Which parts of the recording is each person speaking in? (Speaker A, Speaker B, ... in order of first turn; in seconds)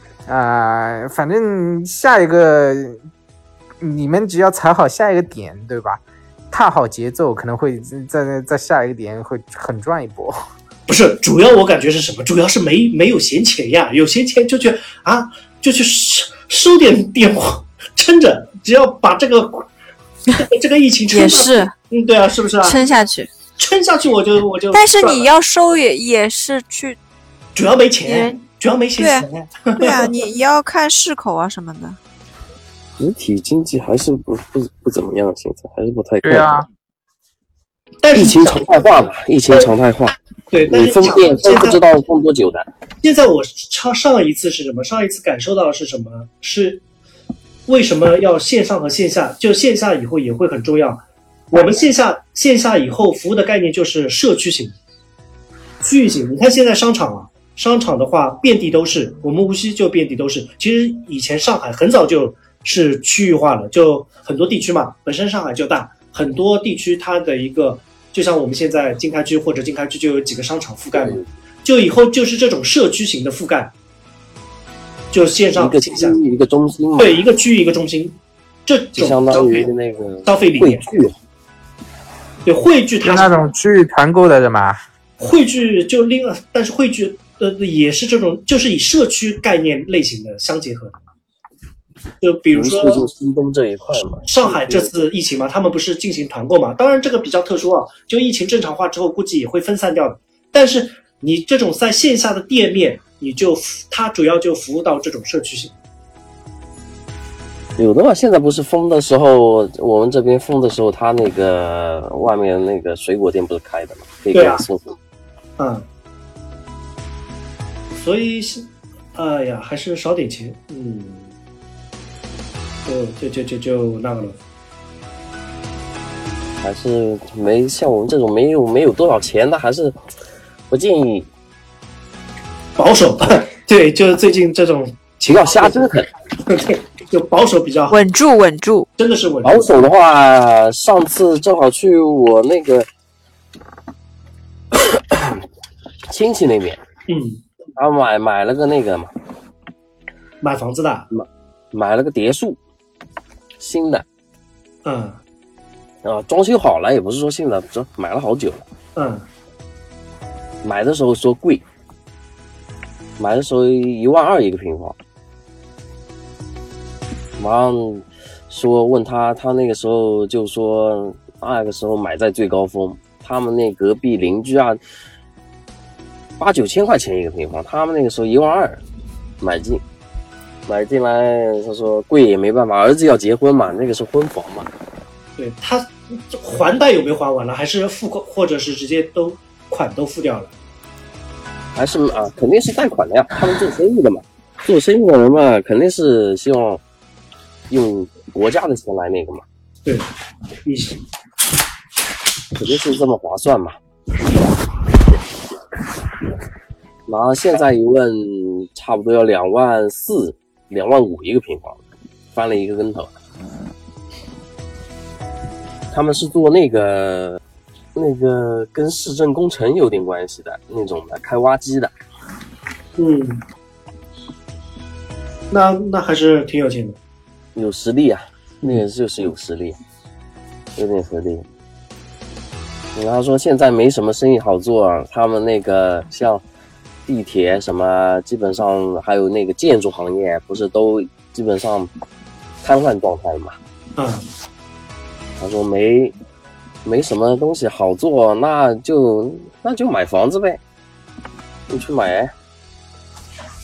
Speaker A: 0.3-3.0, 3.8-10.4, 36.2-36.7, 83.0-84.8
Speaker B: 10.9-19.7, 20.3-22.8, 23.6-25.3, 27.5-30.1, 38.0-39.7, 40.5-41.8, 43.0-46.8, 47.7-54.8, 55.8-73.7, 75.1-76.2, 77.0-79.7, 80.2-81.0, 82.4-83.4, 85.2-91.0, 92.2-93.0, 94.2-105.7, 114.3-114.6, 115.6-115.8, 117.9-121.3, 122.8-124.4, 132.8-135.9, 136.4-138.0, 139.0-139.7, 147.1-147.4, 150.4-151.1, 154.8-155.2, 158.9-159.3, 185.4-190.5, 200.6-201.0, 223.0-223.4, 225.5-227.0, 243.9-244.2
Speaker C: 21.1-21.7, 22.6-23.3, 24.7-27.0, 28.0-28.4, 29.0-32.0, 137.9-138.9
Speaker D: 33.0-36.5, 38.1-42.7, 70.9-71.2, 75.5-77.2, 79.0-81.1, 92.5-94.9, 107.8-114.9, 126.6-129.9, 130.7-131.3, 135.2-136.1, 139.4-142.9, 144.7-145.4, 146.1-146.8, 147.8-149.1, 151.1-152.6, 153.6-154.0, 156.0-158.6, 160.6-161.6, 163.2-164.9, 167.4-174.8, 176.4-178.8, 179.4-179.8, 180.7-184.7, 191.7-196.8, 197.7-199.4, 202.5-203.7, 207.1-211.8, 212.3-213.1, 215.9-217.4, 217.9-221.9, 227.5-229.8, 230.8-231.4, 232.9-236.4, 237.1-241.9, 242.6-243.6, 245.4-246.1, 246.8-250.6, 251.7-252.3